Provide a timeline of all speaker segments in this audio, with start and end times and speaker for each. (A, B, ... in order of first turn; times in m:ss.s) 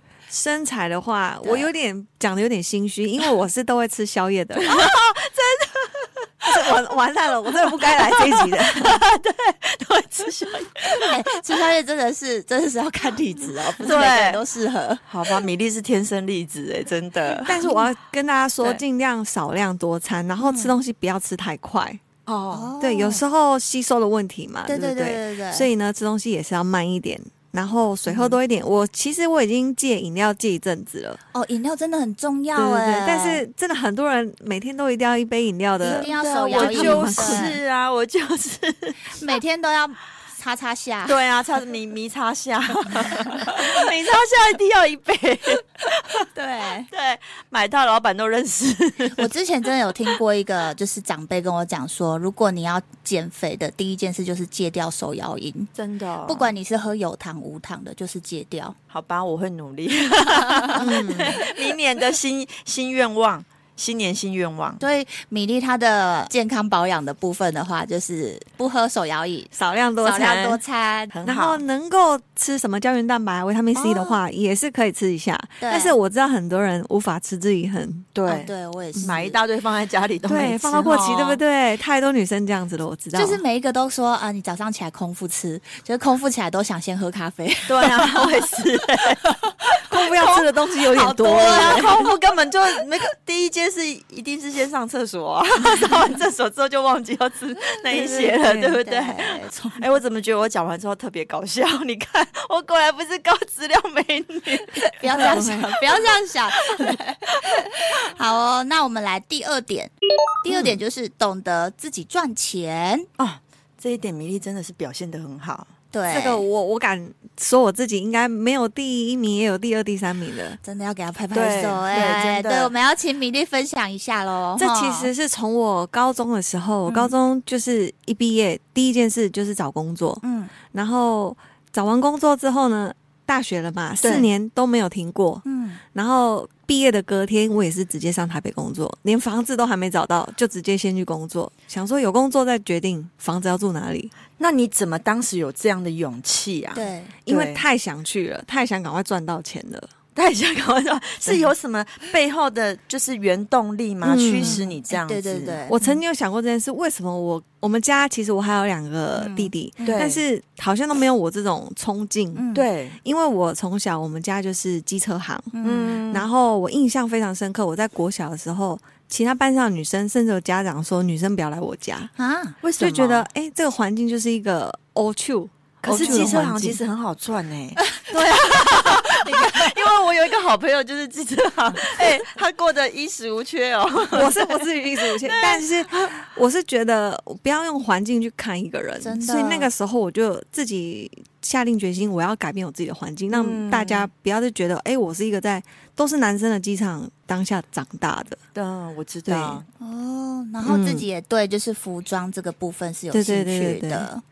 0:00.3-0:05.0 A
0:01.4-0:01.7 B
0:04.6-0:06.8 C
0:06.5-0:09.0 A
0:07.5-0:11.4 C
0:10.9-0:15.0 B
0:13.8-0:14.4 C
0:15.1-0:17.6 C
0:17.4-0:22.0 A
0:17.5-0:17.8 B
0:20.4-0:20.7 B
0:22.3-0:22.7 C
0:22.5-0:23.2 B
0:22.8-0:31.2 A
0:24.7-0:25.7 B
0:28.1-0:28.3 B
0:31.3-0:33.4 B
0:32.6-0:37.6 A
0:35.8-0:37.6 B
0:35.9-0:39.4 C
0:39.2-0:41.2 B
0:41.1-0:46.3 C
0:46.3-0:46.9 B
0:46.9-0:49.3 C
0:49.2-0:55.7 B
0:55.8-0:56.5 C
0:56.3-0:58.8 B
0:58.9-1:04.8 C
1:00.6-1:01.4 B
1:00.8-1:01.4 A
1:04.8-1:11.1 B
1:09.5-1:10.6 A
1:11.1-1:11.6 C
1:11.2-1:18.1 A
1:13.8-1:14.2 B
1:15.6-1:15.9 B
1:18.2-1:21.4 C
1:18.3-1:19.4 B
1:20.3-1:23.4 A
1:23.1-1:28.3 B
1:27.7-1:47.6 C
1:29.9-1:32.1 A
1:31.2-1:31.9 B
1:37.9-1:39.8 B
1:38.4-1:38.8 A
1:44.9-1:53.1 B
1:45.2-1:45.7 A
1:53.2-1:55.7 C
1:55.9-1:56.4 B
1:56.1-2:00.6 A
2:00.6-2:05.1 B
2:01.3-2:02.7 C
2:01.6-2:02.1 A
2:04.6-2:24.1 A
2:06.9-2:07.1 B
2:10.2-2:10.5 B
2:14.0-2:14.3 C
2:15.4-2:15.8 B
2:24.4-2:27.6 C
2:26.8-2:27.1 B
2:27.3-2:29.9 A
2:30.2-2:35.7 C
2:34.0-2:34.6 A
2:34.4-2:36.0 B
2:35.7-2:42.5 A
2:39.2-2:40.0 B
2:39.8-2:40.2 C
2:42.4-2:42.7 B
2:42.6-2:43.0 C
2:43.0-2:45.5 A
2:45.5-2:46.0 B
2:45.6-2:46.3 C
2:46.1-2:52.1 A
2:52.2-2:52.6 B
2:52.6-2:53.3 C
2:52.8-2:56.8 A
2:55.8-3:06.1 C
2:55.9-2:56.4 B
2:57.8-2:59.7 B
3:04.1-3:18.4 A
3:09.0-3:09.7 B
3:13.3-3:14.1 C
3:18.6-3:19.7 C
3:19.3-3:19.6 A
3:19.8-3:24.2 B
3:20.6-3:21.0 A
3:23.1-3:24.1 A